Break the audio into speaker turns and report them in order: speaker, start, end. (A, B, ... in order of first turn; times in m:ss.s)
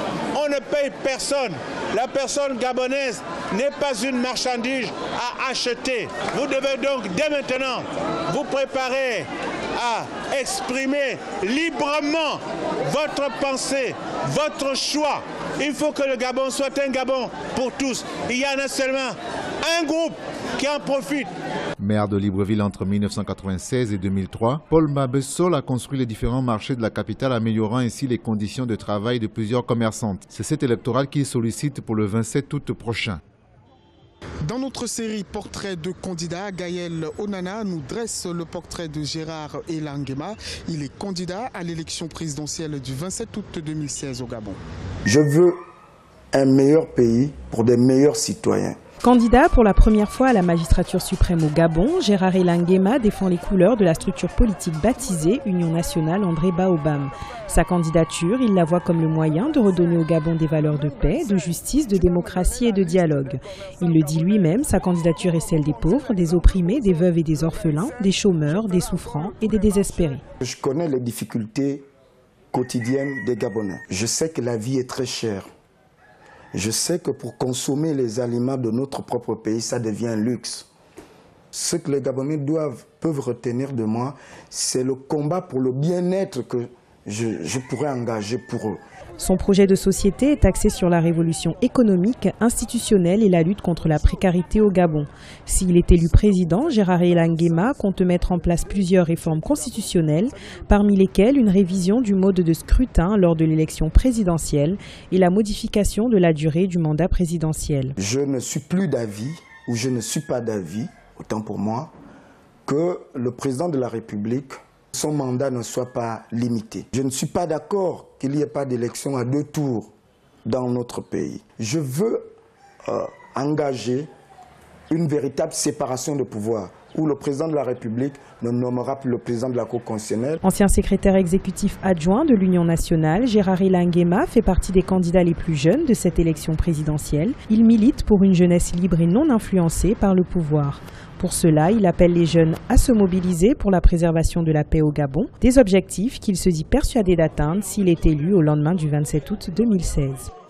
0:00.3-0:21.3 A
0:21.8-0:33.2 B
0:34.4-0:44.6 C
0:45.0-0:45.6 D
0:46.3-0:48.8 D
0:49.0-1:10.2 E
1:10.4-1:11.8 D
1:12.5-1:15.5 D
1:16.5-1:20.7 D
1:21.5-1:28.8 D
1:29.2-1:47.9 E
1:48.0-1:51.9 D
1:52.6-1:59.9 D
2:00.4-2:02.3 D
2:02.8-2:04.1 D
2:04.9-2:10.4 D
2:10.4-2:30.3 E